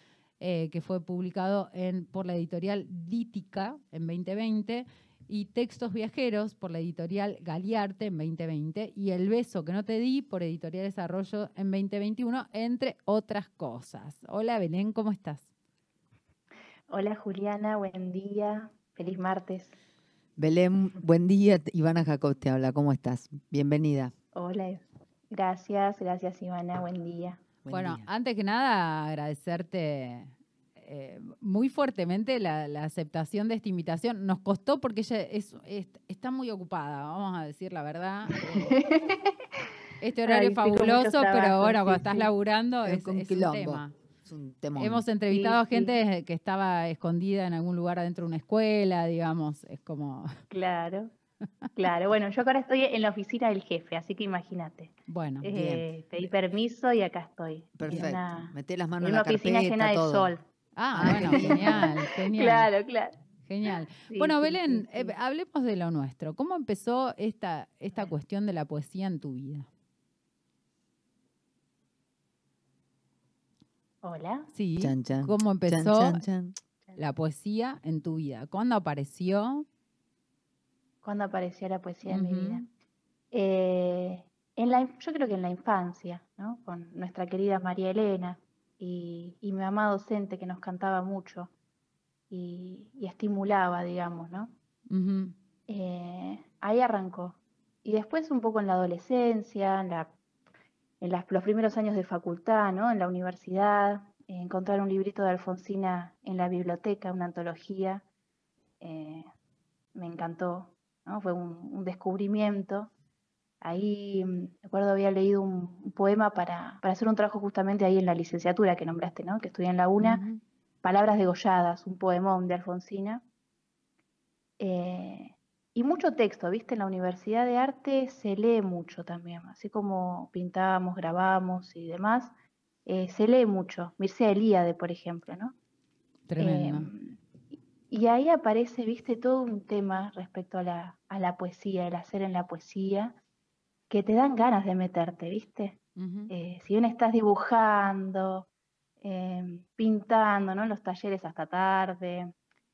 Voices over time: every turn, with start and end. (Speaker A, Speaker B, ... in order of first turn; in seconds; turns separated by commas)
Speaker A: 0.4-15.5, Speaker B: 16.9-19.8, Speaker C: 20.4-24.1, Speaker B: 24.3-27.4, Speaker C: 27.6-28.0, Speaker A: 27.7-38.8, Speaker B: 38.3-39.6, Speaker A: 40.0-43.9, Speaker B: 40.2-42.3, Speaker C: 42.8-45.0, Speaker A: 44.8-50.3, Speaker B: 45.3-46.0, Speaker B: 50.5-51.1, Speaker B: 51.8-60.4, Speaker A: 55.1-55.7, Speaker C: 55.5-55.8, Speaker C: 57.8-60.3, Speaker A: 60.8-62.7, Speaker C: 60.9-61.9, Speaker B: 61.0-63.1, Speaker A: 63.5-69.7, Speaker B: 64.0-65.1, Speaker B: 74.0-74.5, Speaker A: 74.5-76.2, Speaker C: 74.8-76.5, Speaker A: 77.0-79.6, Speaker B: 81.0-82.7, Speaker A: 82.0-82.6, Speaker B: 83.3-91.5, Speaker B: 92.3-94.5, Speaker A: 94.9-95.3, Speaker B: 95.7-100.1, Speaker B: 101.0-108.0, Speaker B: 108.8-109.3, Speaker B: 109.9-112.9, Speaker B: 113.6-120.2, Speaker A: 120.0-120.4, Speaker B: 120.8-123.2, Speaker B: 124.6-132.3, Speaker B: 132.8-135.5, Speaker A: 136.3-136.9, Speaker B: 136.4-143.2, Speaker B: 143.9-145.8, Speaker A: 146.0-146.3, Speaker B: 146.3-148.5, Speaker B: 149.0-152.3